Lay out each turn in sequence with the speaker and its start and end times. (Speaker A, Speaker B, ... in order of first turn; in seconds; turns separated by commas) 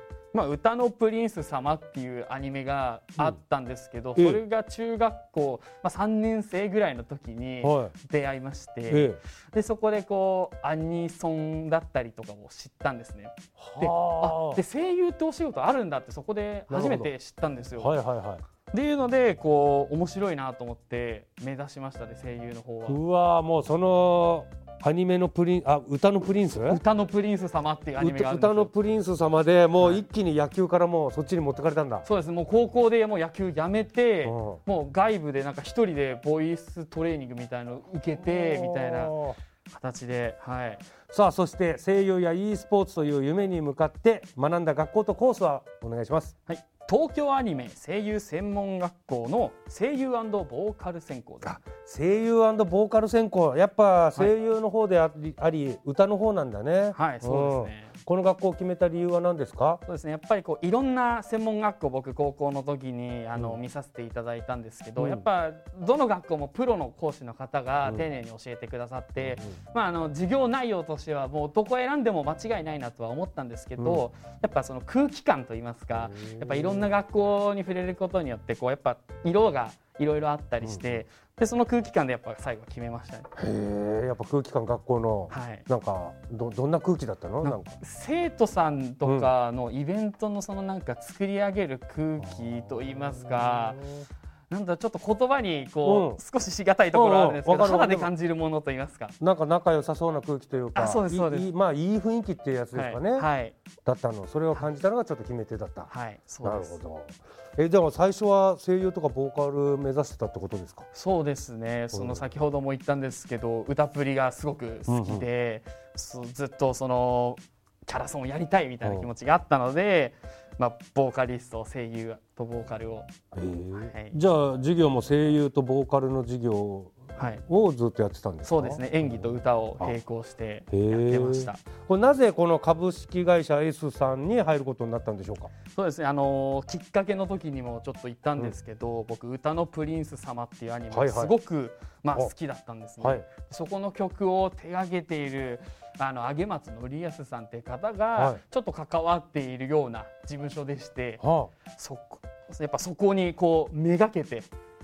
Speaker A: 0.3-18.0, Speaker B: 4.2-4.4, Speaker B: 7.6-7.9, Speaker B: 8.9-9.2, Speaker B: 13.6-14.6, Speaker B: 16.7-17.1, Speaker B: 17.8-18.4, Speaker A: 18.7-23.0, Speaker B: 22.9-26.8, Speaker A: 26.7-28.7, Speaker B: 28.0-32.0, Speaker A: 29.8-30.0, Speaker A: 32.0-39.1, Speaker B: 34.2-34.6, Speaker B: 38.2-39.4, Speaker A: 39.7-40.8, Speaker B: 41.1-46.3, Speaker A: 46.5-51.6, Speaker B: 51.4-59.8, Speaker A: 56.9-57.9, Speaker A: 59.9-83.3, Speaker B: 63.4-63.6, Speaker B: 65.0-65.2, Speaker B: 69.2-69.6, Speaker B: 75.9-76.9, Speaker B: 80.6-81.0, Speaker B: 83.3-87.8, Speaker A: 85.3-85.6, Speaker A: 87.4-93.8, Speaker B: 89.0-89.3, Speaker B: 92.2-94.0, Speaker A: 94.5-99.1, Speaker B: 95.8-96.2, Speaker B: 96.9-98.1, Speaker B: 99.2-103.3, Speaker A: 100.7-101.5, Speaker A: 102.7-103.5, Speaker B: 103.8-105.9, Speaker A: 105.9-106.8, Speaker B: 106.4-110.9, Speaker A: 110.9-123.1, Speaker B: 111.9-112.3, Speaker B: 114.9-115.2, Speaker B: 118.8-119.1, Speaker B: 123.3-129.9, Speaker A: 123.8-124.2, Speaker A: 127.2-127.4, Speaker A: 128.4-131.6, Speaker B: 130.7-135.5, Speaker A: 135.7-151.2, Speaker B: 140.9-141.3, Speaker B: 143.0-143.2, Speaker B: 148.1-148.4, Speaker B: 151.2-151.5, Speaker A: 151.7-154.5